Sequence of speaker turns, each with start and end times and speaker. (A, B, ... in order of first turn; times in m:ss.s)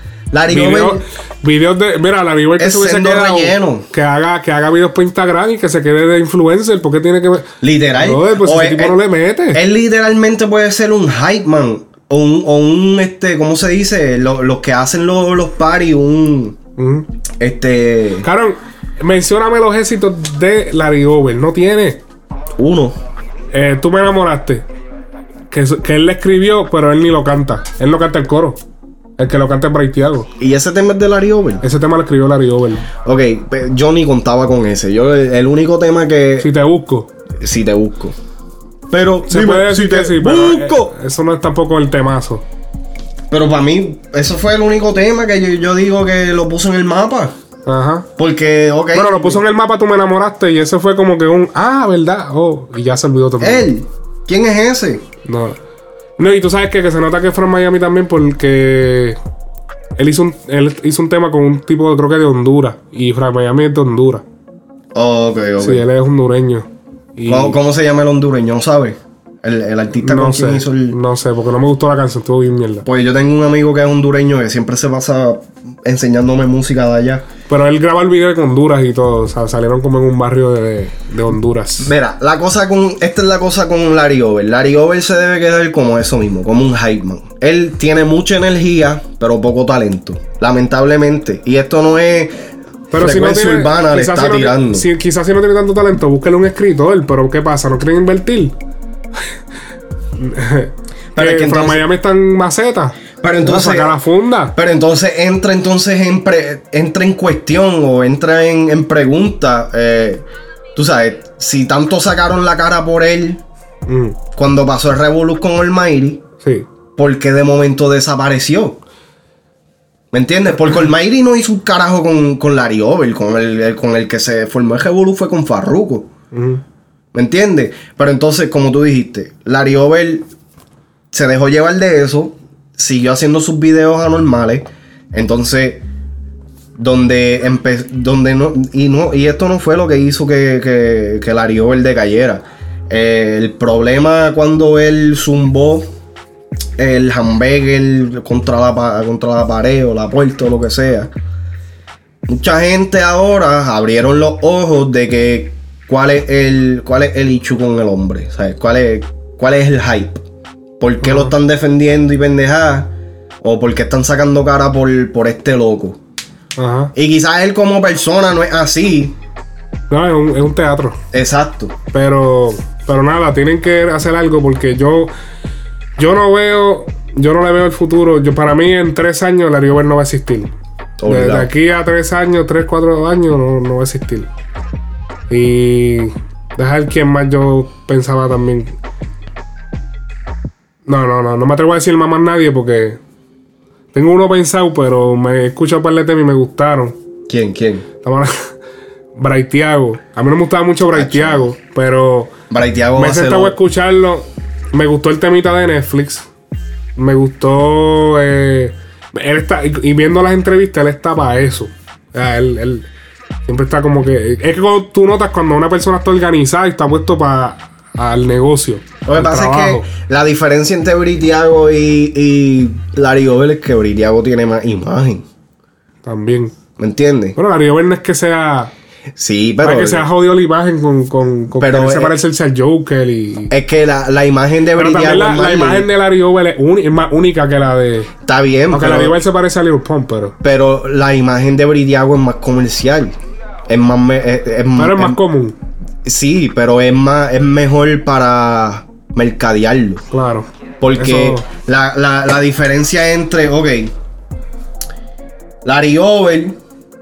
0:00.3-0:01.0 A
0:00.5-0:09.6 B
0:02.6-0:03.9 A
0:07.6-0:09.0 A
0:09.5-0:16.6 A
0:16.8-0:17.1 B
0:17.4-0:18.2 A
0:18.2-0:22.0 B
0:22.6-0:23.0 A
0:23.5-0:24.6 B
0:25.5-0:28.6 B
0:29.2-0:30.3 B
0:30.4-0:31.6 A
0:31.6-0:32.9 B
0:33.0-0:36.5 A
0:36.4-0:37.1 B
0:37.4-0:38.2 A
0:38.9-0:40.9 A
0:39.3-0:42.4 B
0:43.3-0:47.3 A
0:47.6-0:48.1 B
0:48.2-0:49.4 A
0:48.9-0:53.7 B
0:53.4-0:55.0 A
0:55.2-0:55.6 B
0:56.2-0:59.2 B
1:00.0-1:04.2 B
1:04.9-1:05.8 A
1:05.6-1:07.6 B
1:07.2-1:11.0 A
1:10.0-1:12.8 B
1:12.8-1:17.2 A
1:17.5-1:21.9 B
1:21.8-1:34.9 A
1:32.9-1:38.5 B
1:40.2-1:44.5 B
1:41.1-1:41.8 A
1:43.2-1:44.0 A
1:44.5-1:53.4 A
1:53.9-1:54.2 B
1:54.3-1:56.2 A
1:56.4-1:56.7 B
1:57.0-1:58.8 A
2:00.1-2:06.1 A
2:06.3-2:06.6 B
2:07.1-2:10.3 A
2:11.1-2:15.8 A
2:16.8-2:25.9 A
2:26.8-2:31.1 A
2:32.3-2:40.2 A
2:40.8-2:42.9 A
2:41.0-2:41.3 B
2:43.4-2:46.0 A
2:46.6-2:46.9 B
2:46.9-2:49.2 A
2:49.9-2:51.0 B
2:51.1-2:51.7 A
2:51.9-2:55.1 B
2:56.0-3:00.5 B
3:01.0-3:01.5 A
3:01.1-3:04.3 B
3:05.3-3:08.7 B
3:10.9-3:13.0 B
3:13.9-3:17.0 B
3:17.3-3:17.8 A
3:18.0-3:18.3 B
3:19.2-3:22.3 B
3:20.9-3:21.5 A
3:22.5-3:23.6 A
3:23.0-3:26.3 B
3:27.0-3:32.9 B
3:33.4-3:39.8 B
3:39.0-3:45.2 A
3:46.0-3:46.5 B
3:46.8-3:47.4 A
3:47.4-3:48.7 B
3:49.2-3:50.0 A
3:49.6-3:53.5 B
3:51.6-3:52.2 A
3:53.5-3:55.9 A
3:54.8-3:58.1 B
3:58.2-3:59.2 A
3:58.7-4:00.3 B
4:00.4-4:03.2 A
4:03.7-4:05.2 A
4:04.8-4:05.5 B
4:06.0-4:10.0 A
4:10.1-4:11.4 B
4:10.8-4:13.9 A
4:15.6-4:16.6 A